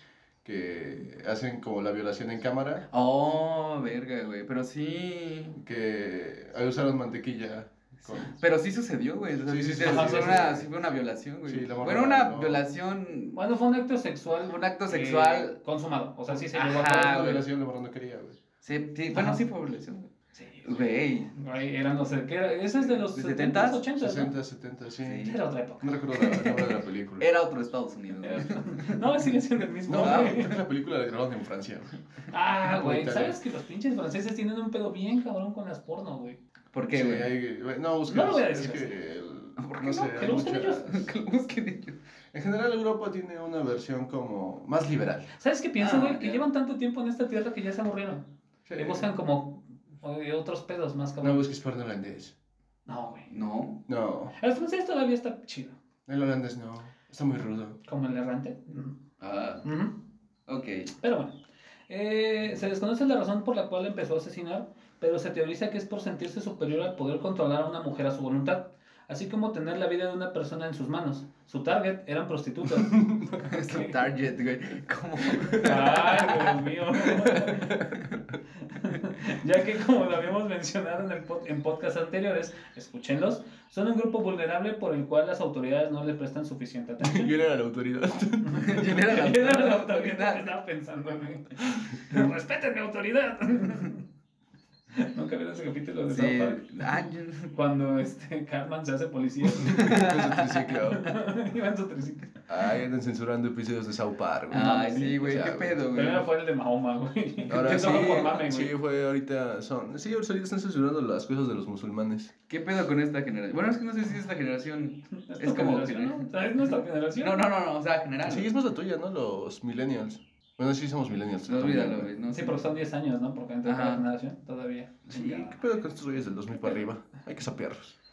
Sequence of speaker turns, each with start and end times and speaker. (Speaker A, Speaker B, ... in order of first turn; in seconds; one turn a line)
Speaker A: 0.4-2.8
Speaker B: 2.9-5.6
Speaker A: 5.6-8.3
Speaker B: 8.2-13.4
Speaker A: 9.4-10.7
Speaker C: 9.8-10.5
Speaker A: 11.4-12.6
Speaker C: 13.3-17.4
Speaker B: 14.4-15.6
Speaker B: 16.5-17.4
Speaker A: 16.9-18.4
Speaker B: 18.6-20.1
Speaker C: 19.1-19.4
Speaker C: 20.4-20.7
Speaker B: 20.6-21.3
Speaker C: 21.3-24.3
Speaker B: 22.9-23.8
Speaker A: 24.0-27.3
Speaker B: 25.0-25.4
Speaker C: 25.2-26.5
Speaker B: 27.2-29.1
Speaker C: 28.2-30.6
Speaker A: 29.9-31.9
Speaker B: 29.9-30.5
Speaker C: 32.3-36.4
Speaker A: 32.6-33.4
Speaker B: 36.7-37.3
Speaker A: 36.9-41.1
Speaker C: 38.1-38.9
Speaker B: 39.6-42.0
Speaker C: 40.1-40.8
Speaker A: 42.3-45.3
Speaker C: 45.4-51.4
Speaker B: 45.8-46.4
Speaker A: 48.6-49.0
Speaker A: 51.2-52.3
Speaker C: 52.9-53.3
Speaker B: 53.3-53.8
Speaker A: 53.9-54.3
Speaker C: 54.4-55.8
Speaker A: 56.1-57.8
Speaker C: 57.9-59.0
Speaker B: 59.2-59.6
Speaker C: 59.6-59.9
Speaker B: 60.5-60.9
Speaker C: 61.0-61.3
Speaker C: 61.9-73.9
Speaker A: 72.9-73.4
Speaker B: 73.4-78.1
Speaker C: 75.5-78.0
Speaker C: 78.6-87.3
Speaker A: 87.0-89.0
Speaker C: 88.4-94.0
Speaker B: 88.6-90.5
Speaker C: 94.9-96.7
Speaker B: 96.1-97.5
Speaker C: 97.5-100.1
Speaker A: 99.6-101.1
Speaker B: 99.8-100.5
Speaker C: 100.9-102.3
Speaker A: 102.5-105.8
Speaker B: 104.5-106.3
Speaker C: 104.7-105.1
Speaker C: 105.9-108.7
Speaker A: 107.5-112.3
Speaker B: 107.7-108.3
Speaker B: 112.5-116.3
Speaker C: 115.2-117.4
Speaker B: 117.2-118.5
Speaker A: 118.2-122.1
Speaker B: 121.5-122.7
Speaker C: 122.3-125.5
Speaker B: 123.6-124.0
Speaker A: 125.1-128.0